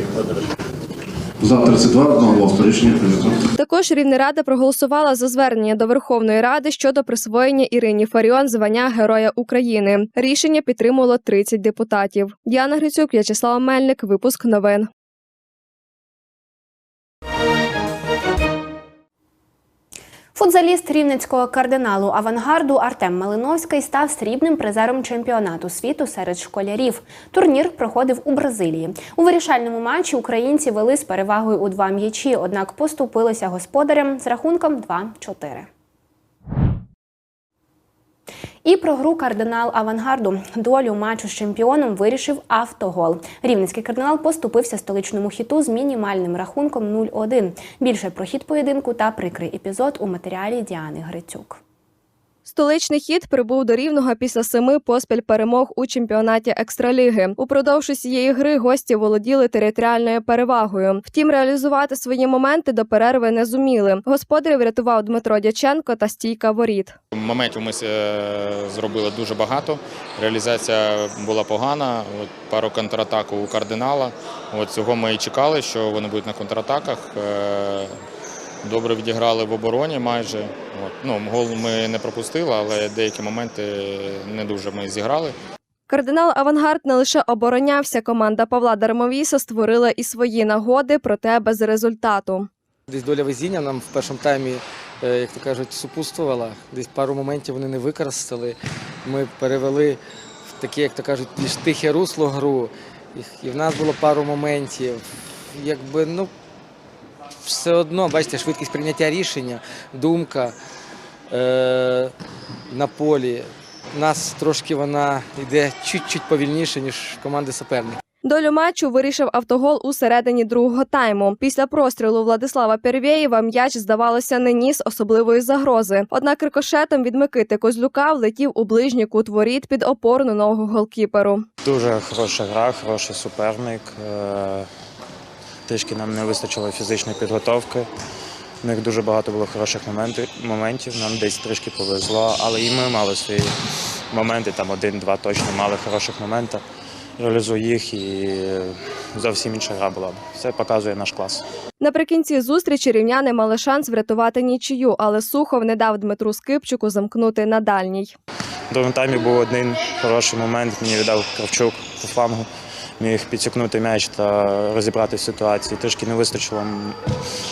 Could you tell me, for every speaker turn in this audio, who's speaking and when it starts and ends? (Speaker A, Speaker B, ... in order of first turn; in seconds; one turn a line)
Speaker A: 1.4-3.4
Speaker B: 3.6-14.9
Speaker C: 20.4-35.7
Speaker C: 38.6-51.6
Speaker B: 52.5-67.0
Speaker D: 67.2-77.9
Speaker D: 78.6-85.3
Speaker B: 85.9-92.5
Speaker E: 92.9-98.5
Speaker E: 99.0-100.0
Speaker E: 100.6-105.0
Speaker E: 105.6-106.3
Speaker E: 107.5-110.5
Speaker E: 111.3-112.1
Speaker E: 112.7-113.4
Speaker E: 113.9-118.0
Speaker B: 118.2-131.4
Speaker F: 131.6-134.7
Speaker F: 135.7-137.9
Speaker F: 138.6-143.5
Speaker F: 144.1-146.6
Speaker F: 147.2-151.4
Speaker B: 151.8-158.1
Speaker F: 158.7-162.5
Speaker F: 163.0-167.0